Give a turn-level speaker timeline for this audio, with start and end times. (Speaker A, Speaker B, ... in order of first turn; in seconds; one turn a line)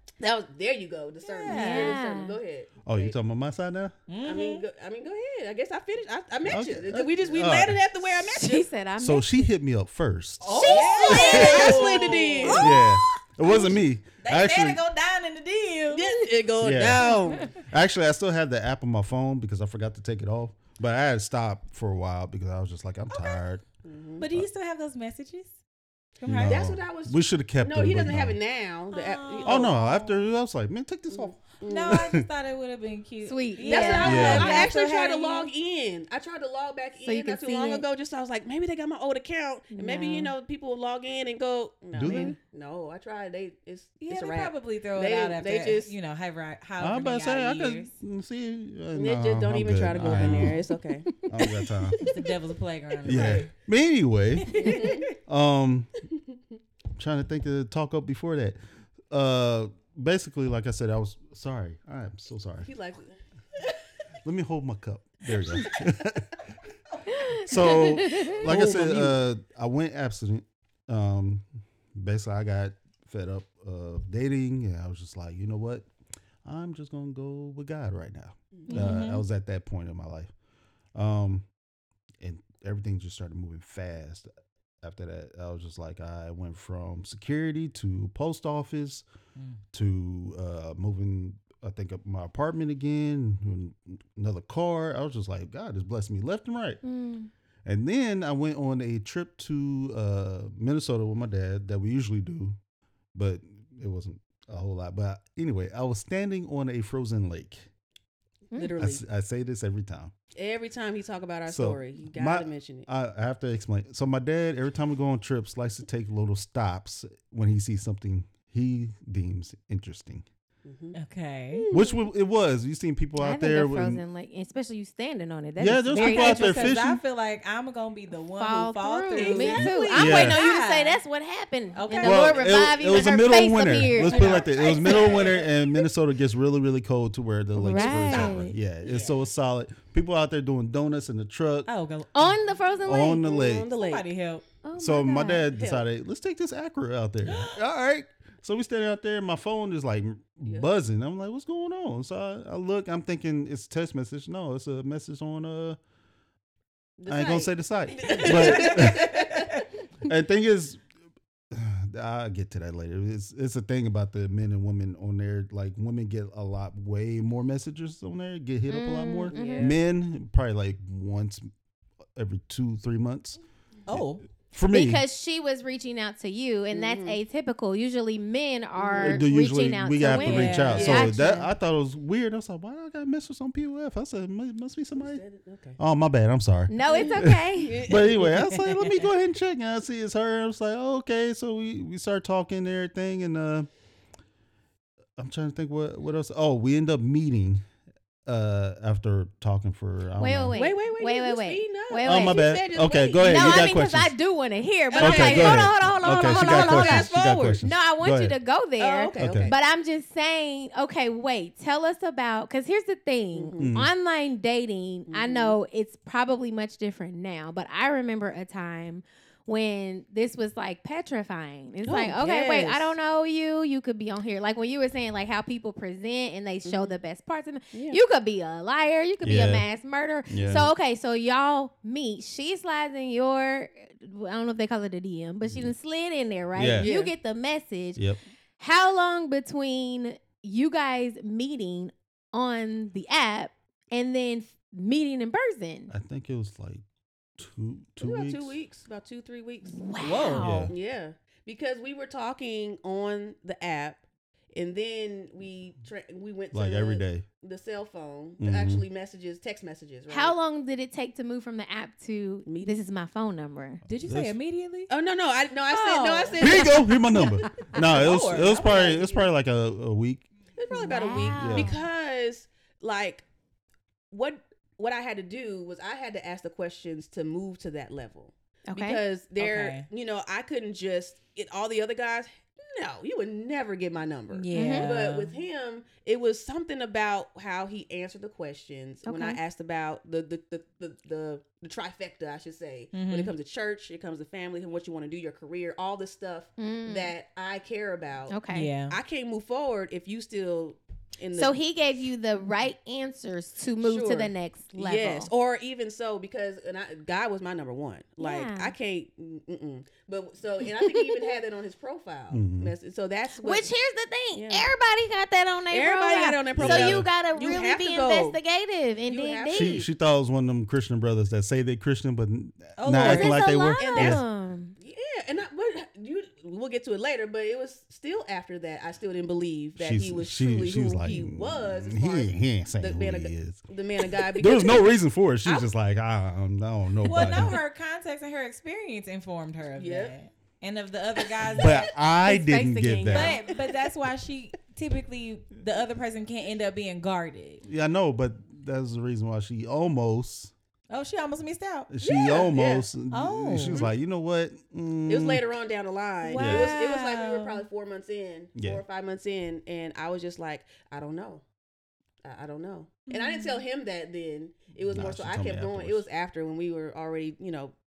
Speaker A: 0.2-3.1
Speaker B: 1.2-2.0
Speaker C: 1.5-2.4
Speaker D: 2.8-3.9
Speaker B: 4.1-4.6
Speaker A: 4.2-8.7
Speaker D: 6.4-8.1
Speaker C: 8.3-9.4
Speaker D: 9.0-14.8
Speaker B: 10.4-13.0
Speaker A: 10.5-12.7
Speaker C: 10.6-11.8
Speaker C: 12.4-12.8
Speaker B: 14.2-16.2
Speaker A: 15.9-17.6
Speaker D: 16.6-23.6
Speaker A: 23.8-24.3
Speaker B: 24.2-25.5
Speaker B: 26.2-26.7
Speaker D: 26.2-28.4
Speaker A: 26.4-29.8
Speaker B: 28.9-30.1
Speaker D: 29.4-32.2
Speaker A: 31.1-32.1
Speaker B: 31.6-35.5
Speaker C: 33.2-34.7
Speaker A: 33.6-45.9
Speaker D: 34.0-34.6
Speaker C: 37.0-37.8
Speaker C: 39.7-40.3
Speaker D: 41.9-42.4
Speaker C: 42.0-42.4
Speaker B: 44.0-47.9
Speaker D: 46.8-50.6
Speaker A: 48.9-51.1
Speaker B: 49.9-50.6
Speaker C: 51.0-51.7
Speaker D: 51.2-52.0
Speaker B: 52.0-53.5
Speaker A: 53.0-53.5
Speaker D: 53.0-56.0
Speaker B: 54.4-55.1
Speaker A: 54.5-55.1
Speaker D: 57.0-58.6
Speaker D: 59.1-62.7
Speaker A: 62.6-63.8
Speaker D: 64.2-66.4
Speaker A: 65.5-65.7
Speaker C: 67.1-68.3
Speaker D: 67.4-75.9
Speaker A: 67.6-69.0
Speaker B: 68.4-69.0
Speaker D: 76.4-80.3
Speaker B: 78.7-79.2
Speaker D: 80.9-81.5
Speaker D: 82.2-84.3
Speaker D: 84.8-89.0
Speaker D: 89.7-96.8
Speaker C: 96.8-97.3
Speaker D: 97.6-102.6
Speaker D: 103.1-107.7
Speaker A: 108.5-109.0
Speaker D: 108.8-110.1
Speaker A: 110.3-112.9
Speaker D: 111.5-120.2
Speaker A: 120.6-121.0
Speaker B: 120.9-121.6
Speaker A: 121.5-122.0
Speaker D: 121.7-124.0
Speaker C: 123.2-126.7
Speaker D: 125.6-127.0
Speaker B: 126.0-131.0
Speaker C: 128.4-134.4
Speaker A: 129.2-129.7
Speaker D: 129.6-130.4
Speaker B: 131.7-132.7
Speaker D: 132.0-141.7
Speaker A: 134.0-135.5
Speaker B: 134.1-135.4
Speaker C: 137.6-138.5
Speaker B: 137.7-139.2
Speaker B: 141.7-142.4
Speaker C: 142.1-143.5
Speaker D: 142.8-143.7
Speaker A: 143.2-144.1
Speaker B: 143.6-144.4
Speaker C: 144.6-145.5
Speaker D: 144.8-155.8
Speaker A: 145.5-145.8
Speaker B: 147.3-147.6
Speaker A: 157.0-159.6
Speaker D: 157.1-159.5
Speaker B: 158.2-159.4
Speaker D: 160.0-160.8
Speaker D: 161.5-171.5
Speaker C: 168.7-169.7
Speaker A: 169.3-169.8
Speaker D: 172.1-173.4
Speaker B: 173.9-174.2
Speaker D: 173.9-175.0
Speaker C: 174.6-181.5
Speaker A: 176.7-177.2
Speaker A: 178.8-179.2
Speaker D: 179.0-185.2
Speaker B: 180.2-181.1
Speaker A: 180.7-181.1
Speaker A: 184.9-185.8
Speaker D: 185.8-193.7
Speaker C: 186.7-187.8
Speaker A: 186.9-188.6
Speaker B: 188.6-188.8
Speaker D: 195.2-197.6
Speaker D: 198.2-200.6
Speaker C: 200.2-202.5
Speaker A: 200.5-203.7
Speaker D: 202.0-204.1
Speaker C: 203.2-238.0
Speaker A: 204.9-207.6
Speaker D: 205.0-208.3
Speaker A: 208.8-209.6
Speaker D: 209.2-209.5
Speaker A: 213.3-213.8
Speaker D: 213.6-213.9
Speaker A: 215.1-215.6
Speaker D: 221.9-222.1
Speaker A: 221.9-222.9
Speaker A: 226.6-226.9
Speaker A: 227.7-228.0
Speaker D: 229.2-229.6
Speaker D: 230.3-230.7
Speaker D: 235.4-235.7
Speaker D: 236.5-236.9
Speaker A: 236.8-237.1
Speaker C: 238.6-245.9
Speaker D: 245.9-246.8
Speaker D: 247.4-248.6
Speaker A: 248.0-249.8
Speaker C: 249.8-250.7
Speaker B: 250.0-250.5
Speaker D: 250.4-250.7
Speaker A: 250.7-260.4
Speaker D: 256.5-257.2
Speaker D: 258.4-258.8
Speaker C: 260.1-263.8
Speaker A: 262.4-262.8
Speaker B: 263.9-264.9
Speaker D: 264.0-264.3
Speaker A: 264.9-266.9
Speaker B: 265.7-266.6
Speaker D: 266.4-270.3
Speaker B: 267.6-268.7
Speaker A: 267.7-269.3
Speaker A: 270.6-273.2
Speaker C: 270.7-271.8
Speaker D: 271.4-271.8
Speaker A: 274.1-298.4
Speaker C: 278.7-279.0
Speaker B: 279.4-279.9
Speaker B: 284.3-285.4
Speaker C: 284.5-284.9
Speaker C: 289.0-289.4
Speaker B: 292.9-293.3
Speaker C: 296.6-297.1
Speaker C: 298.3-298.7
Speaker B: 298.5-298.9
Speaker A: 298.9-301.6
Speaker C: 301.4-305.3
Speaker A: 303.8-313.7
Speaker C: 308.2-308.7
Speaker D: 312.3-312.7
Speaker C: 313.4-319.9
Speaker A: 314.3-314.7
Speaker A: 315.7-318.4
Speaker D: 316.5-317.1
Speaker A: 319.1-319.8
Speaker D: 319.5-324.2
Speaker B: 322.8-323.4
Speaker C: 322.9-324.8
Speaker A: 323.8-324.2
Speaker A: 324.8-334.9
Speaker D: 329.8-333.6
Speaker D: 334.3-337.6
Speaker B: 337.0-341.9
Speaker A: 339.8-340.1
Speaker A: 341.5-341.8
Speaker D: 341.5-343.4
Speaker C: 342.2-343.4
Speaker B: 343.1-347.6
Speaker D: 347.6-350.5
Speaker B: 350.9-351.9
Speaker D: 351.9-355.4
Speaker A: 352.0-352.9
Speaker B: 353.1-353.9
Speaker A: 355.1-361.4
Speaker B: 356.2-357.6
Speaker D: 356.4-356.7
Speaker D: 358.6-358.8
Speaker A: 362.2-367.7
Speaker B: 363.1-363.6
Speaker D: 364.9-366.1